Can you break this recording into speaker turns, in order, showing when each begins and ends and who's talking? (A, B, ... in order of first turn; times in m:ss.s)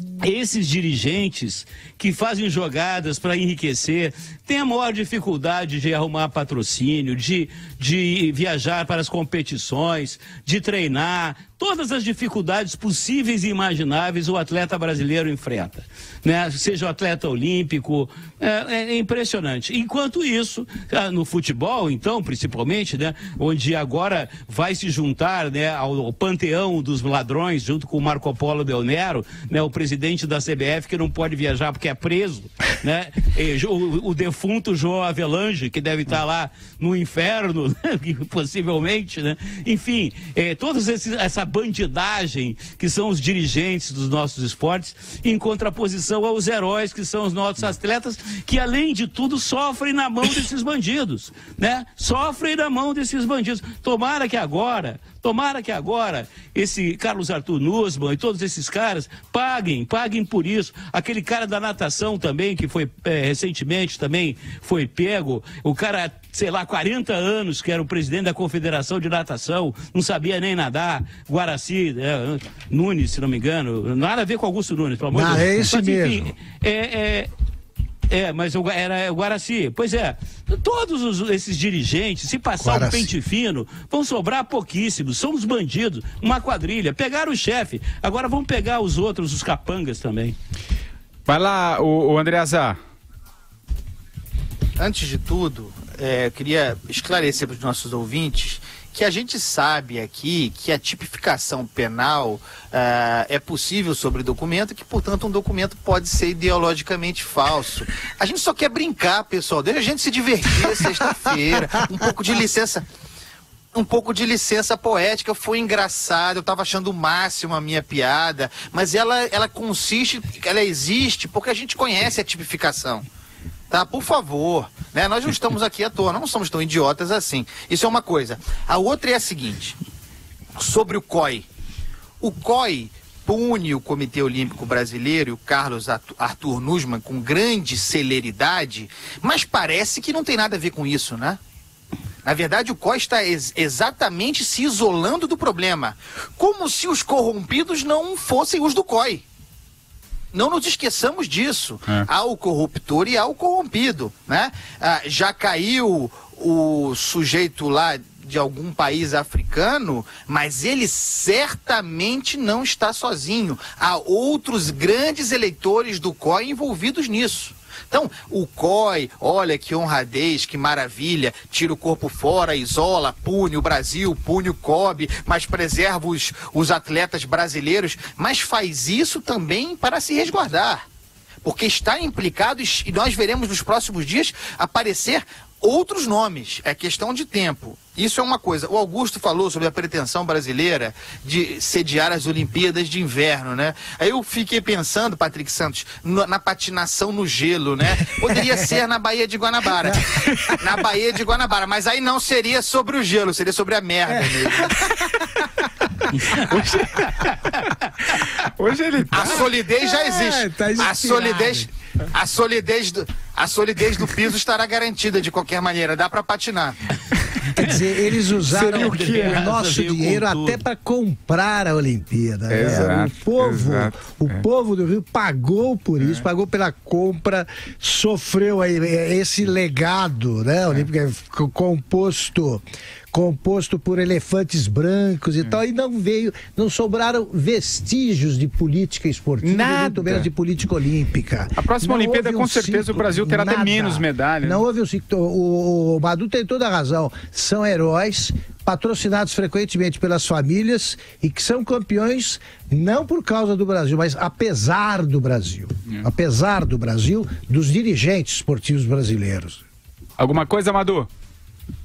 0:00.2-1:17.3 A
1:15.1-1:16.3 B
1:18.1-1:30.4 A
1:22.6-1:23.1 B
1:31.2-1:32.8 C
1:34.8-1:52.8 D
1:53.7-2:03.0 D
2:03.7-2:09.8 D
2:10.6-2:11.4 D
2:12.2-2:21.4 D
2:22.2-2:29.2 D
2:30.3-3:00.8 D
3:01.4-3:24.8 D
3:19.8-3:20.6 B
3:24.1-3:25.7 B
3:26.3-3:27.3 C
3:28.0-3:29.5 C
3:29.1-3:36.8 D
3:29.2-3:31.7 B
3:37.5-4:19.6 B
3:37.6-3:40.6 A
3:38.5-3:39.4 C
3:42.5-3:44.4 C
3:46.0-3:46.2 C
3:59.4-4:00.3 C
4:01.6-4:04.6 C
4:20.2-4:21.1 C